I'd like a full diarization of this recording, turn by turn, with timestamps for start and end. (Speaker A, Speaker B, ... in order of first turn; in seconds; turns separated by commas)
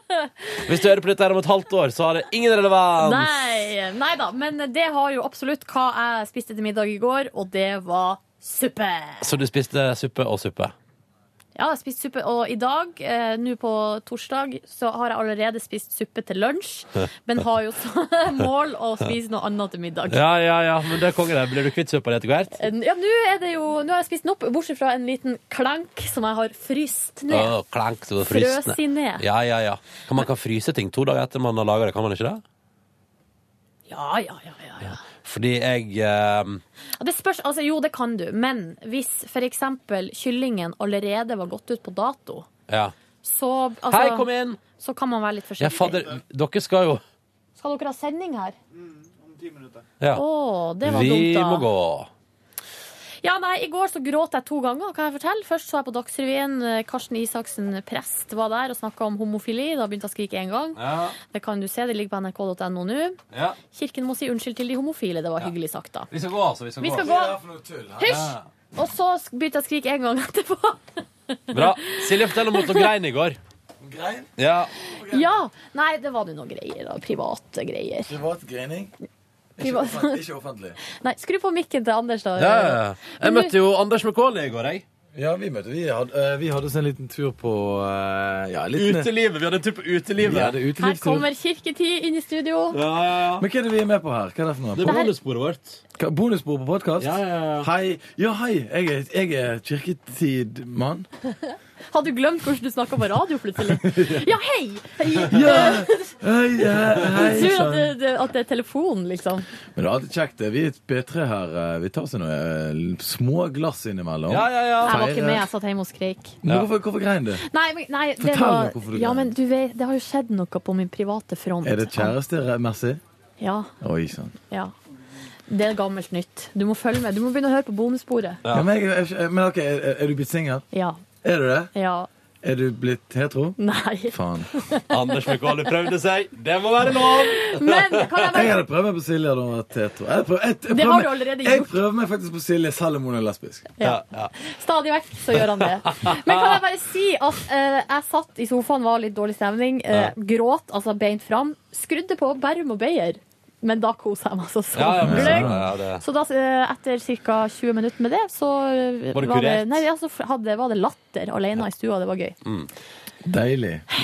Speaker A: 0.2-0.6, Speaker B: 0.6-3.6, Speaker A: 3.0-9.3, Speaker B: 9.2-10.8, Speaker A: 11.6-20.2, Speaker B: 20.1-22.6, Speaker A: 22.6-27.5, Speaker B: 27.3-32.4, Speaker A: 28.2-29.2, Speaker A: 33.9-35.0, Speaker B: 34.9-36.6, Speaker A: 37.0-42.5, Speaker B: 42.7-42.9, Speaker A: 43.2-46.1, Speaker B: 43.9-44.6, Speaker B: 45.6-47.0, Speaker A: 47.6-48.6, Speaker B: 50.0-50.2, Speaker A: 50.1-51.7, Speaker B: 50.8-52.1, Speaker A: 53.2-63.2, Speaker B: 60.8-61.2, Speaker B: 63.3-63.6, Speaker A: 63.7-66.1, Speaker B: 66.1-67.1, Speaker A: 66.8-67.4, Speaker C: 66.9-68.3, Speaker A: 68.0-72.9, Speaker B: 68.0-68.5, Speaker B: 71.5-73.4, Speaker C: 73.8-74.3, Speaker B: 74.4-74.7, Speaker C: 74.9-75.3, Speaker A: 75.1-78.1, Speaker C: 78.1-78.9, Speaker C: 79.6-80.8, Speaker A: 79.6-80.2, Speaker A: 80.9-83.5, Speaker B: 82.4-84.9, Speaker C: 85.1-89.1, Speaker B: 88.8-90.6, Speaker C: 90.2-91.3, Speaker A: 90.8-92.8, Speaker B: 92.7-93.5, Speaker C: 93.4-95.0, Speaker B: 94.8-95.8, Speaker A: 94.8-95.1, Speaker C: 96.0-101.1, Speaker B: 97.0-97.7, Speaker A: 101.4-106.2, Speaker C: 103.7-104.2, Speaker C: 105.3-108.0, Speaker A: 107.1-109.5, Speaker B: 107.2-107.4, Speaker C: 109.8-115.1, Speaker B: 114.3-115.4, Speaker A: 114.8-116.4, Speaker C: 116.4-117.4, Speaker A: 117.4-122.2, Speaker C: 118.2-119.3, Speaker C: 121.6-123.0, Speaker A: 123.4-123.7, Speaker C: 123.8-124.3, Speaker A: 125.5-128.4, Speaker C: 128.5-130.7, Speaker A: 130.7-131.0, Speaker C: 131.2-131.7, Speaker A: 131.7-132.1, Speaker C: 132.4-133.6, Speaker A: 133.6-135.6, Speaker C: 134.1-134.5, Speaker B: 134.9-138.4, Speaker A: 137.0-138.6, Speaker C: 138.3-143.7, Speaker A: 140.7-141.8, Speaker A: 143.8-162.4, Speaker B: 143.8-144.3, Speaker B: 145.3-146.6, Speaker B: 154.7-156.0, Speaker C: 155.0-155.6, Speaker B: 159.1-159.8, Speaker B: 162.4-162.7, Speaker C: 163.2-163.8